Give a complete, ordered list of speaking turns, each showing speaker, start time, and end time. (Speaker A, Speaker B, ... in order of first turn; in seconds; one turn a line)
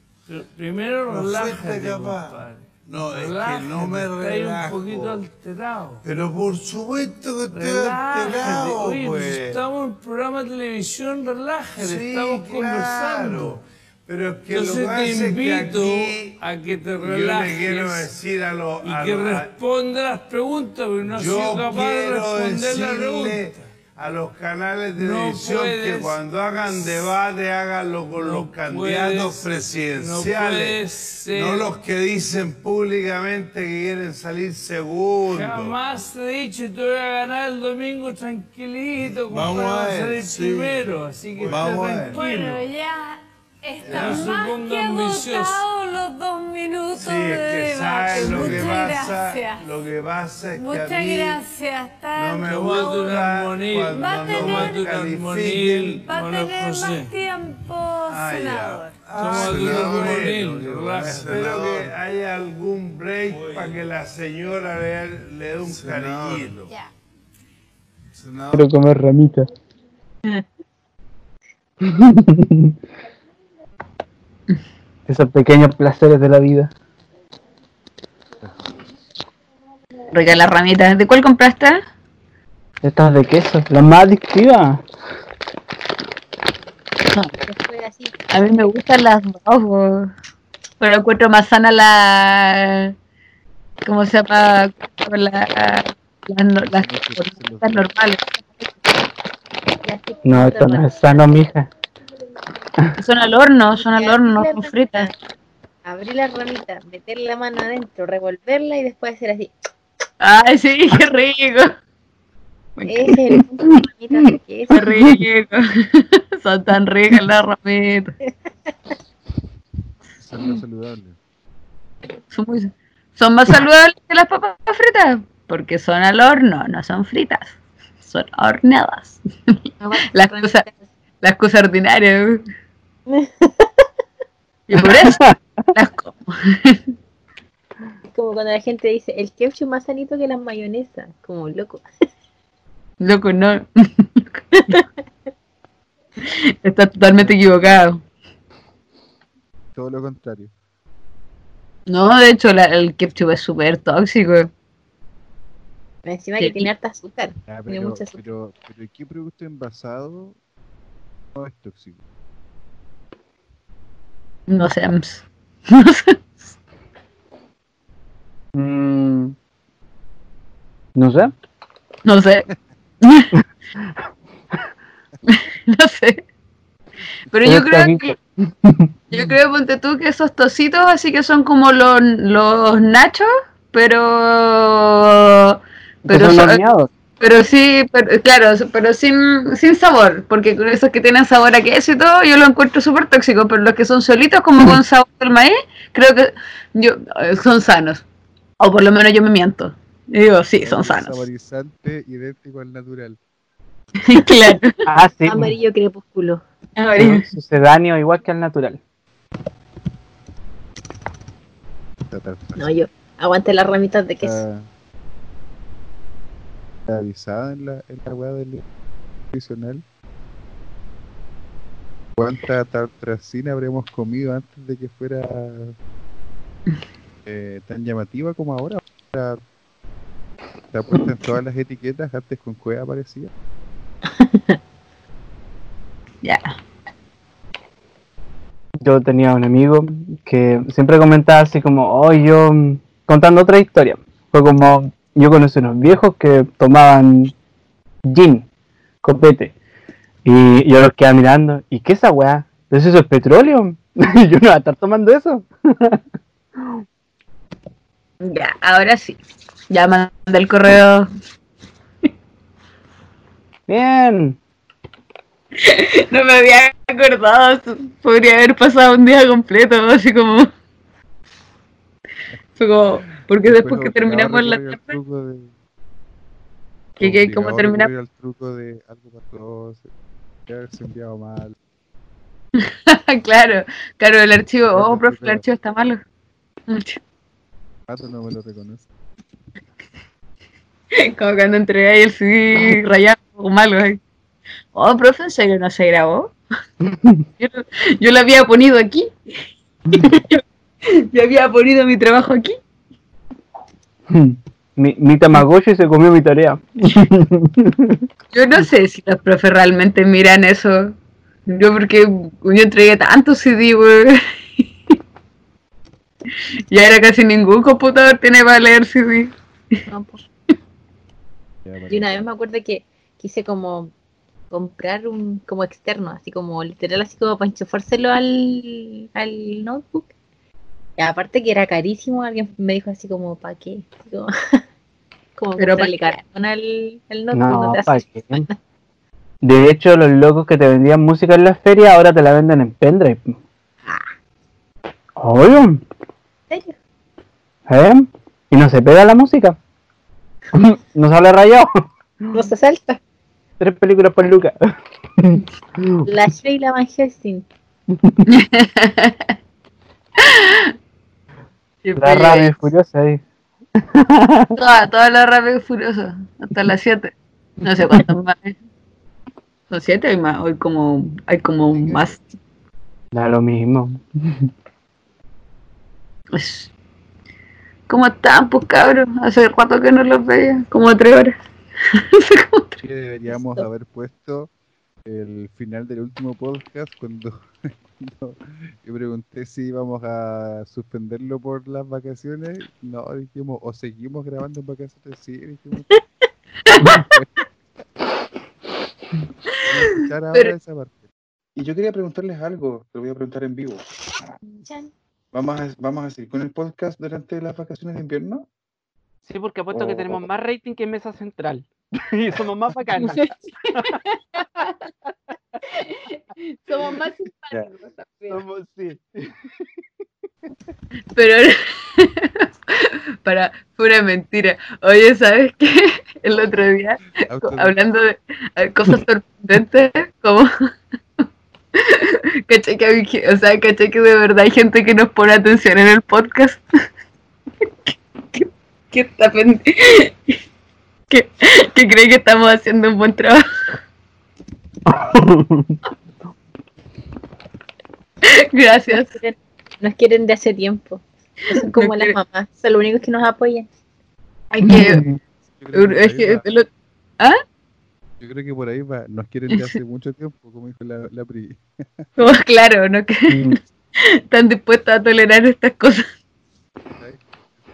Speaker A: 0.3-6.0
Speaker B: 1.1-5.2
Speaker B: 6.0-9.6
Speaker A: 7.5-13.6
Speaker B: 11.8-16.4
Speaker A: 14.5-18.1
Speaker B: 17.0-19.5
Speaker A: 18.8-23.7
Speaker B: 21.1-30.8
Speaker A: 25.0-27.1
Speaker A: 28.2-31.7
Speaker B: 31.3-35.8
Speaker A: 35.3-42.6
Speaker B: 39.1-42.2
Speaker C: 41.7-49.7
Speaker B: 43.8-44.4
Speaker A: 43.8-45.6
Speaker B: 47.0-51.4
Speaker A: 48.2-48.8
Speaker C: 50.5-53.1
Speaker B: 52.2-56.0
Speaker A: 52.4-57.1
Speaker C: 53.9-54.9
Speaker C: 56.1-59.5
Speaker B: 58.1-66.7
Speaker A: 59.2-61.9
Speaker D: 59.5-60.2
Speaker D: 61.1-61.9
Speaker A: 63.3-63.8
Speaker D: 65.7-66.5
Speaker B: 68.2-68.7
Speaker E: 68.5-69.5
Speaker E: 71.8-72.7
Speaker E: 75.1-76.7
Speaker F: 80.1-81.8
Speaker E: 82.8-84.8
Speaker G: 87.5-88.1
Speaker F: 88.3-90.1
Speaker F: 90.8-92.9
Speaker F: 93.8-98.4
Speaker D: 96.7-97.9
Speaker G: 99.8-101.5
Speaker E: 100.2-101.7
Speaker F: 103.0-105.1
Speaker G: 103.8-105.1
Speaker G: 105.8-109.5
Speaker F: 110.2-111.7
Speaker F: 112.8-113.1
Speaker G: 112.9-114.8
Speaker E: 113.3-114.4
Speaker F: 114.7-118.2
Speaker E: 114.9-115.2
Speaker D: 120.2-121.2
Speaker F: 122.3-129.6
Speaker G: 129.8-130.7
Speaker F: 130.1-130.7
Speaker F: 131.2-132.4
Speaker G: 133.1-133.7
Speaker F: 134.7-136.8
Speaker E: 134.8-135.4
Speaker G: 138.1-141.8
Speaker F: 143.0-144.8
Speaker F: 146.2-148.0
Speaker D: 147.2-147.7
Speaker D: 149.7-150.5
Speaker F: 151.9-154.5
Speaker G: 156.1-158.2
Speaker F: 156.4-156.7
Speaker D: 157.5-160.4
Speaker D: 161.3-162.0
Speaker F: 164.5-166.2
Speaker E: 168.6-169.3
Speaker E: 170.9-171.3
Speaker F: 172.1-172.5
Speaker F: 173.0-173.3
Speaker F: 175.3-176.2
Speaker F: 177.3-178.2
Speaker E: 177.4-179.3
Speaker F: 179.1-186.6
Speaker E: 186.1-186.9
Speaker F: 187.2-198.0
Speaker F: 198.6-201.2
Speaker D: 200.6-203.2
Speaker F: 204.1-204.7
Speaker E: 204.9-205.5
Speaker G: 205.3-206.4
Speaker F: 206.8-207.2
Speaker E: 207.0-208.8
Speaker D: 212.1-212.7
Speaker G: 212.6-214.4
Speaker D: 214.2-214.7
Speaker D: 216.9-218.7
Speaker D: 219.3-219.8
Speaker D: 222.2-225.8
Speaker D: 227.2-229.4
Speaker D: 230.7-233.3
Speaker G: 234.2-234.6
Speaker F: 236.2-236.5
Speaker E: 238.8-247.3
Speaker E: 248.1-248.4
Speaker E: 249.0-249.5
Speaker E: 250.2-256.0
Speaker F: 258.2-261.1
Speaker E: 263.7-264.4
Speaker F: 265.6-270.5
Speaker F: 272.6-274.9
Speaker D: 273.4-275.5
Speaker F: 277.0-277.9
Speaker D: 277.0-279.9
Speaker D: 280.5-281.6
Speaker F: 282.6-286.0
Speaker D: 284.7-285.4
Speaker F: 286.7-287.0
Speaker D: 287.9-288.9
Speaker F: 291.0-294.0
Speaker F: 294.7-296.3
Speaker E: 296.8-297.2
Speaker F: 297.4-299.1
Speaker F: 299.9-302.6
Speaker E: 304.1-308.0
Speaker F: 308.3-310.9
Speaker F: 311.5-314.2
Speaker F: 316.7-319.3
Speaker G: 319.9-320.2
Speaker D: 321.6-322.1
Speaker G: 321.9-323.9
Speaker G: 324.5-330.1
Speaker G: 331.0-334.3
Speaker G: 335.4-338.6
Speaker F: 335.6-336.1
Speaker E: 337.3-338.5
Speaker E: 339.4-343.4
Speaker E: 345.2-345.8
Speaker E: 347.7-349.6
Speaker E: 350.5-352.4
Speaker G: 352.3-353.0
Speaker E: 353.6-354.6
Speaker E: 355.2-356.1
Speaker G: 356.1-357.5
Speaker E: 357.9-358.2
Speaker F: 358.3-359.3
Speaker F: 360.2-360.7
Speaker F: 361.9-362.6
Speaker E: 362.0-363.2
Speaker E: 363.8-364.5
Speaker F: 364.6-368.6
Speaker F: 369.7-372.2
Speaker D: 371.7-372.2
Speaker E: 373.1-374.5
Speaker F: 376.3-376.7
Speaker F: 377.9-381.4
Speaker F: 382.1-382.8
Speaker D: 382.8-384.5
Speaker D: 385.1-395.9
Speaker F: 396.7-397.0
Speaker D: 396.8-397.4
Speaker D: 399.7-403.9
Speaker G: 404.6-404.9
Speaker D: 405.3-408.5
Speaker E: 409.3-414.0
Speaker D: 409.7-410.2
Speaker F: 413.9-414.4
Speaker F: 415.7-418.4
Speaker E: 418.3-419.3
Speaker F: 421.1-430.5
Speaker D: 427.3-427.8
Speaker F: 431.8-436.6
Speaker F: 437.9-440.1
Speaker F: 441.1-443.4
Speaker E: 444.9-445.8
Speaker F: 448.3-449.1
Speaker G: 449.0-451.0
Speaker F: 451.6-452.1
Speaker G: 451.6-453.7
Speaker F: 454.5-455.1
Speaker E: 454.6-455.2
Speaker D: 455.5-456.5
Speaker F: 455.7-456.7
Speaker D: 458.2-462.1
Speaker F: 462.2-466.1
Speaker E: 463.3-463.6
Speaker D: 467.0-467.2